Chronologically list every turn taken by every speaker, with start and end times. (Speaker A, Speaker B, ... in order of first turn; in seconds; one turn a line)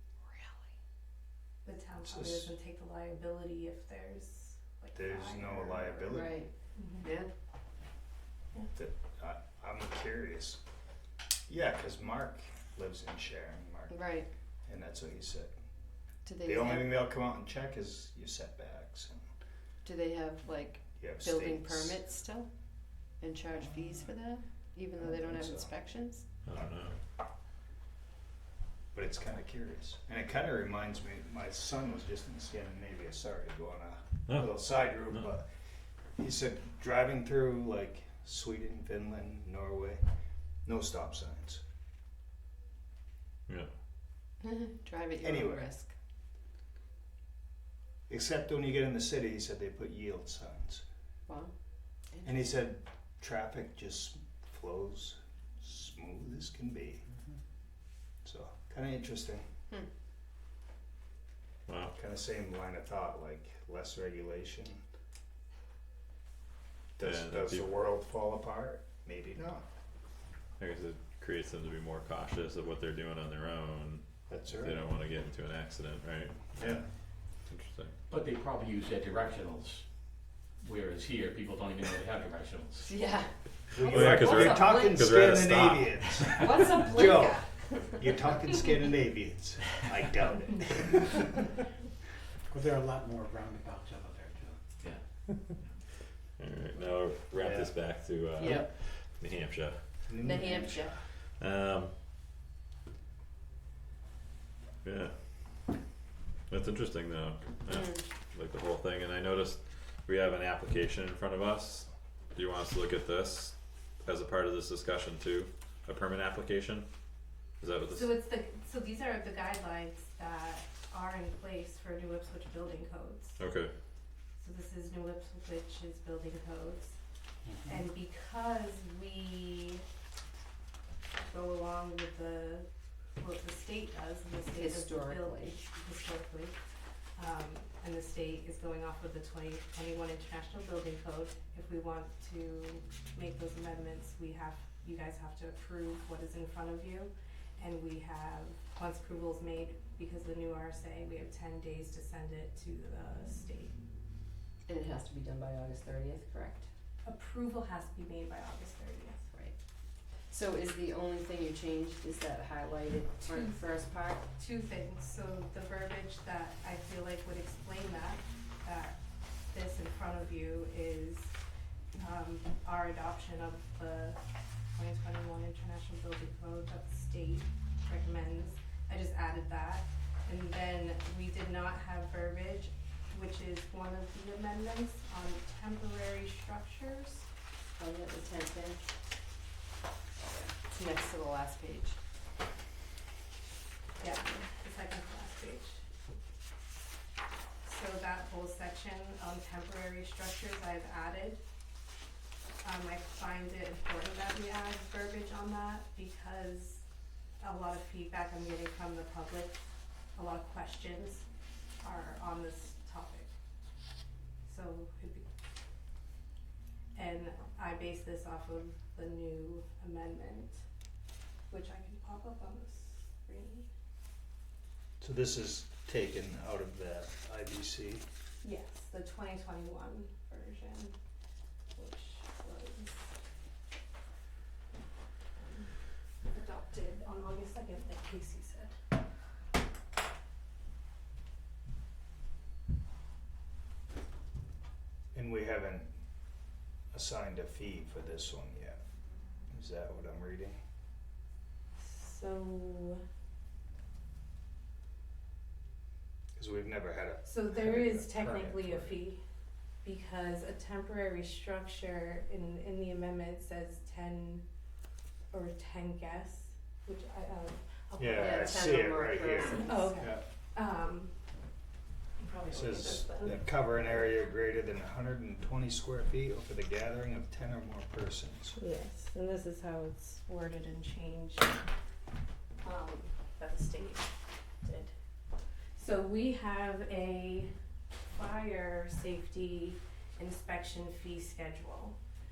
Speaker A: 0.3-0.7
Speaker B: 1.6-7.1
Speaker C: 2.0-2.5
Speaker C: 5.0-6.5
Speaker A: 6.1-7.3
Speaker C: 8.7-10.6
Speaker C: 11.5-15.5
Speaker A: 13.9-14.3
Speaker A: 16.2-17.0
Speaker C: 16.4-19.3
Speaker A: 19.8-22.5
Speaker C: 21.0-22.1
Speaker A: 23.1-26.3
Speaker C: 25.0-25.7
Speaker D: 26.4-27.0
Speaker C: 28.9-35.6
Speaker D: 34.3-34.6
Speaker C: 36.1-40.0
Speaker C: 40.6-41.6
Speaker A: 44.4-46.0
Speaker C: 45.2-45.7
Speaker C: 48.1-50.9
Speaker A: 51.3-51.5
Speaker A: 52.1-52.4
Speaker C: 52.2-57.0
Speaker C: 58.2-59.5
Speaker D: 61.7-61.9
Speaker C: 61.9-64.8
Speaker C: 67.0-69.7
Speaker D: 67.0-67.7
Speaker D: 70.6-76.6
Speaker C: 74.3-74.8
Speaker C: 76.6-76.8
Speaker D: 77.4-77.9
Speaker E: 78.1-82.9
Speaker A: 82.8-85.0
Speaker C: 83.7-91.3
Speaker D: 83.9-86.7
Speaker A: 86.3-88.1
Speaker F: 92.5-94.9
Speaker D: 96.4-100.2
Speaker C: 97.4-97.7
Speaker A: 98.4-98.7
Speaker C: 100.1-101.0
Speaker A: 100.2-101.0
Speaker D: 100.9-101.9
Speaker D: 104.8-105.8
Speaker D: 106.5-116.9
Speaker A: 107.7-108.0
Speaker D: 117.6-118.1
Speaker B: 117.9-123.4
Speaker D: 123.4-123.7
Speaker B: 124.4-127.0
Speaker C: 127.5-127.8
Speaker B: 127.7-129.8
Speaker B: 131.3-136.5
Speaker A: 134.4-135.6
Speaker B: 137.2-153.8
Speaker A: 154.7-156.7
Speaker B: 157.0-159.2
Speaker A: 160.3-164.3
Speaker B: 163.2-169.0
Speaker B: 169.5-171.3
Speaker B: 172.0-187.3
Speaker A: 187.8-188.9
Speaker A: 190.2-192.0
Speaker B: 194.0-195.8
Speaker B: 197.6-201.4
Speaker B: 202.6-206.8
Speaker B: 207.4-209.6
Speaker B: 210.2-211.3
Speaker B: 211.8-213.3
Speaker B: 214.5-215.2
Speaker B: 216.9-220.6
Speaker B: 221.5-223.7
Speaker C: 225.0-228.1
Speaker B: 228.4-230.9
Speaker B: 231.8-233.1
Speaker B: 235.4-235.7
Speaker B: 236.3-238.8
Speaker C: 245.1-246.0
Speaker C: 246.9-248.8
Speaker C: 249.5-250.6
Speaker B: 251.8-253.0
Speaker C: 256.4-259.0
Speaker B: 257.3-259.2
Speaker B: 259.8-264.4
Speaker B: 265.3-268.9
Speaker C: 268.0-270.2
Speaker A: 268.1-270.1
Speaker B: 269.5-271.1
Speaker B: 272.2-273.8
Speaker C: 272.5-278.6
Speaker B: 278.6-281.6
Speaker B: 282.6-284.1
Speaker B: 284.6-284.9
Speaker B: 285.8-287.5
Speaker B: 288.1-292.0